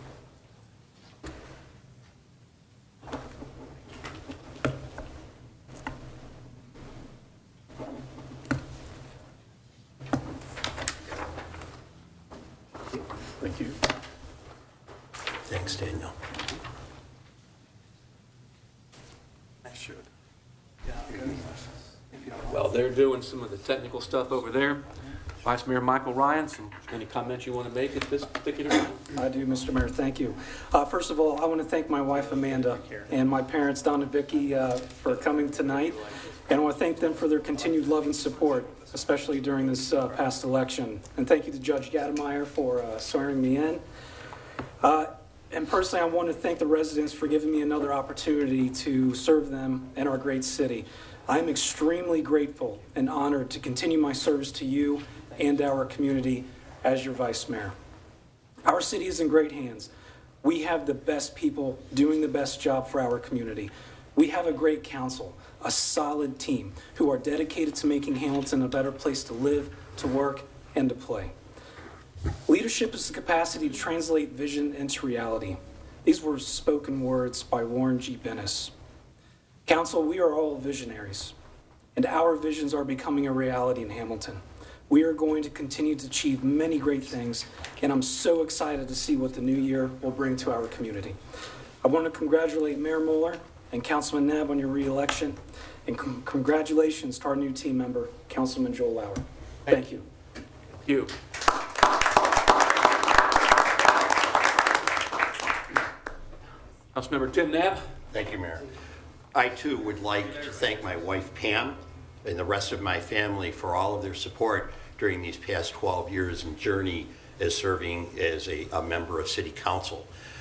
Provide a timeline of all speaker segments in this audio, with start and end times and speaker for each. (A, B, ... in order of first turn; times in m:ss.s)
0:13.4-0:13.8 A
0:15.4-0:16.1 B
0:22.5-0:24.9 A
0:25.4-0:29.0 A
0:29.1-0:43.8 C
0:44.8-0:57.7 C
0:58.6-0:59.9 C
1:00.4-1:11.3 C
1:12.5-1:18.7 C
1:19.6-1:21.3 C
1:21.9-1:31.2 C
1:31.8-1:40.0 C
1:40.8-1:41.1 A
1:46.9-1:47.8 A
1:48.1-1:48.7 B
1:49.3-2:00.1 B